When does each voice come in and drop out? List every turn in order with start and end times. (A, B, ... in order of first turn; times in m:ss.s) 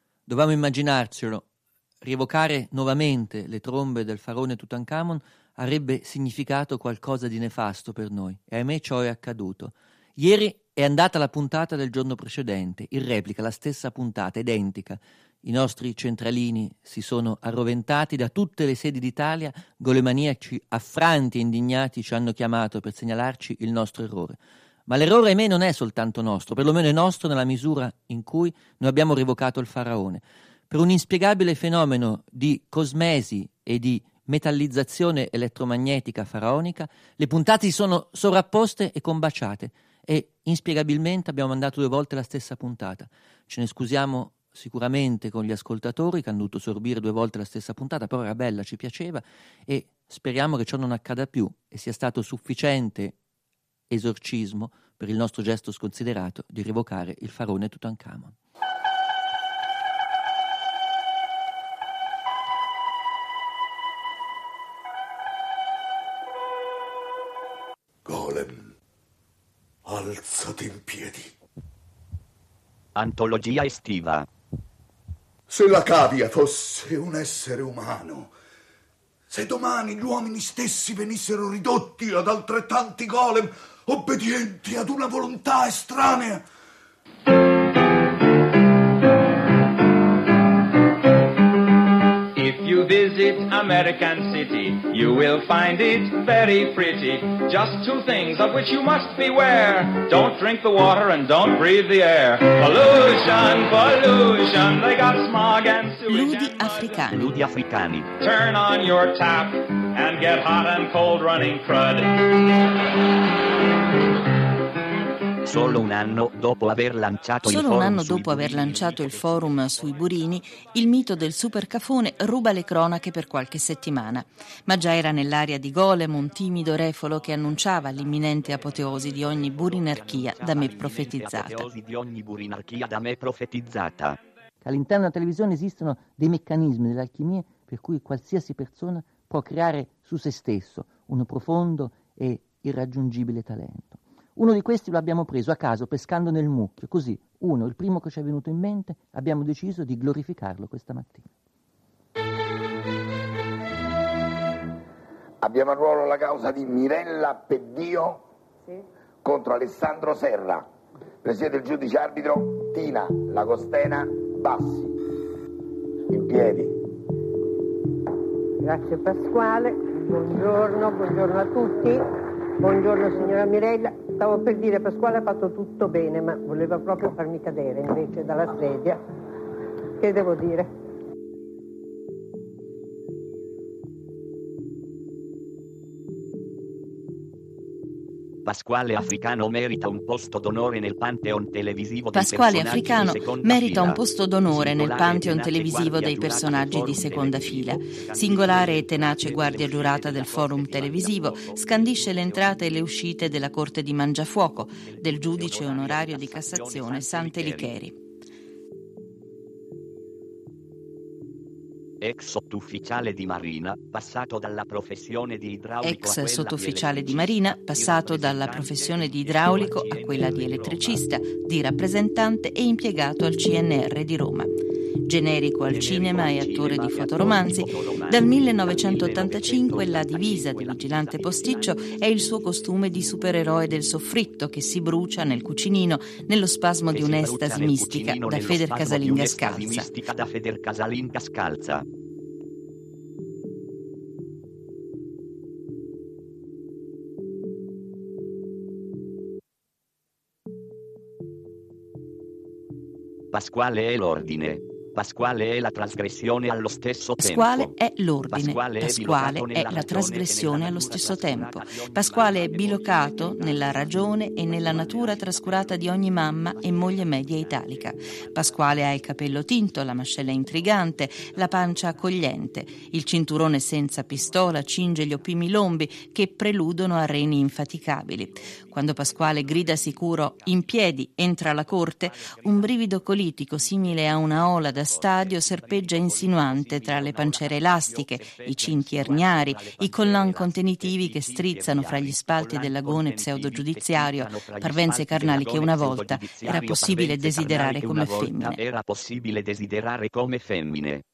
0:00.3-0:01.4 A
0:02.0-0:53.2 A
0:53.9-0:58.3 A
1:08.1-1:08.7 B
1:09.9-1:11.3 B
1:13.0-1:14.3 C
1:15.5-1:18.3 B
1:19.3-1:26.4 B
1:32.3-1:47.0 D
1:46.1-1:47.3 E
1:47.1-1:48.1 C
1:48.2-1:52.3 D
1:55.4-1:59.8 C
1:57.4-2:11.7 E
2:09.5-2:14.2 C
2:14.6-2:31.3 A
2:35.4-2:38.2 F
2:39.2-2:40.7 F
2:41.2-2:44.9 F
2:46.1-2:46.8 F
2:48.6-2:52.0 G
2:52.6-2:59.0 G
3:00.0-3:00.7 G
3:08.4-3:22.5 C
3:12.1-3:27.9 E
3:24.8-3:27.8 C
3:32.0-3:41.0 C
3:35.8-3:44.5 E
3:45.0-3:59.9 E
3:45.7-3:51.8 C
3:56.9-4:01.8 C
4:13.3-4:17.7 C
4:17.2-4:58.6 E
4:18.3-4:27.8 C
4:41.6-4:42.7 C
4:43.5-5:01.0 C